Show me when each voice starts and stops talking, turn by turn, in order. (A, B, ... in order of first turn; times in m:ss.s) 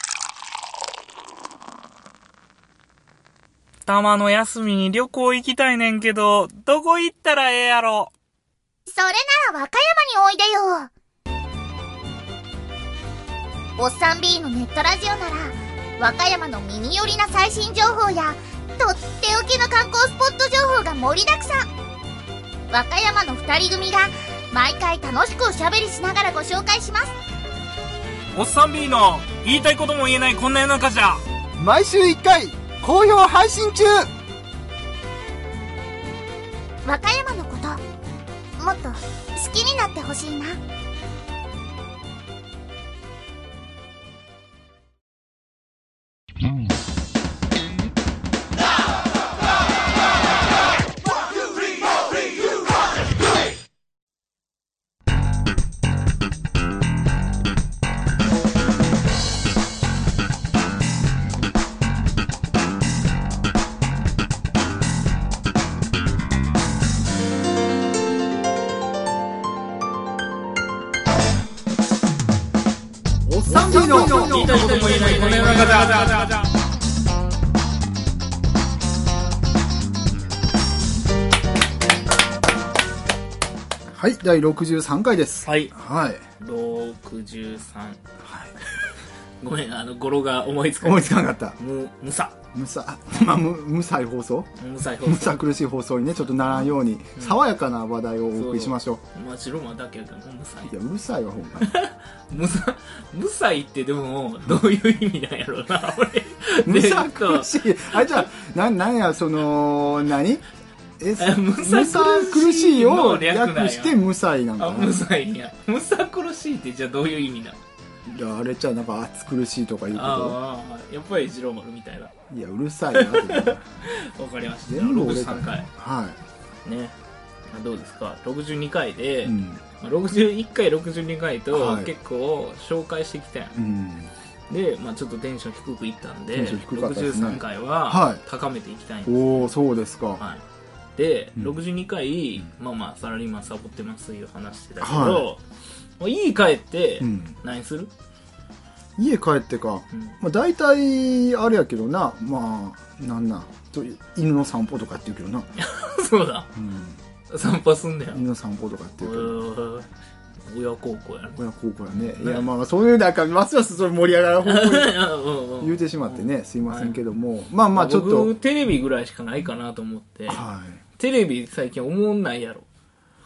0:03.8-0:08.1 A
0:08.9-0:10.9 B
0:13.8-0:21.6 B
0:22.7-0:27.1 B
0:28.3-0:31.2 A
0:31.6-0:34.1 C
0:36.8-0:37.8 B
0:38.6-0:40.6 B
1:13.3-1:15.0 C
1:13.5-1:16.4 A
1:23.9-1:26.2 C
1:25.4-1:25.7 A
1:26.4-1:28.0 A
1:28.2-1:28.5 C
1:29.4-1:32.4 A
1:30.8-1:31.6 C
1:32.5-1:34.5 C
1:34.6-1:35.4 A
1:35.0-1:39.0 C
1:36.4-1:37.4 A
1:38.3-1:40.7 A
1:40.6-1:41.7 C
1:41.6-1:48.2 A
1:46.6-1:50.4 C
1:51.0-1:55.0 C
1:51.2-1:54.0 A
1:54.6-1:57.6 A
1:58.0-2:00.4 C
1:59.9-2:02.1 A
2:02.3-2:03.6 C
2:02.9-2:05.7 A
2:04.7-2:06.2 C
2:06.6-2:07.0 A
2:07.5-2:13.6 A
2:09.2-2:09.6 C
2:11.5-2:11.9 C
2:13.6-2:14.1 C
2:14.5-2:19.5 A
2:16.3-2:18.2 C
2:19.0-2:20.2 C
2:20.2-2:20.4 A
2:21.0-2:25.4 A
2:24.8-2:25.3 C
2:26.0-2:27.9 A
2:27.0-2:27.4 C
2:29.0-2:35.5 C
2:35.6-2:36.5 A
2:36.5-2:37.0 C
2:37.3-2:38.2 A
2:38.1-2:39.4 C
2:39.0-2:39.9 A
2:40.4-2:42.5 A
2:41.4-2:45.0 C
2:44.4-2:47.0 A
2:45.6-2:48.3 C
2:47.7-2:50.4 A
2:50.3-2:50.8 C
2:51.0-2:52.6 A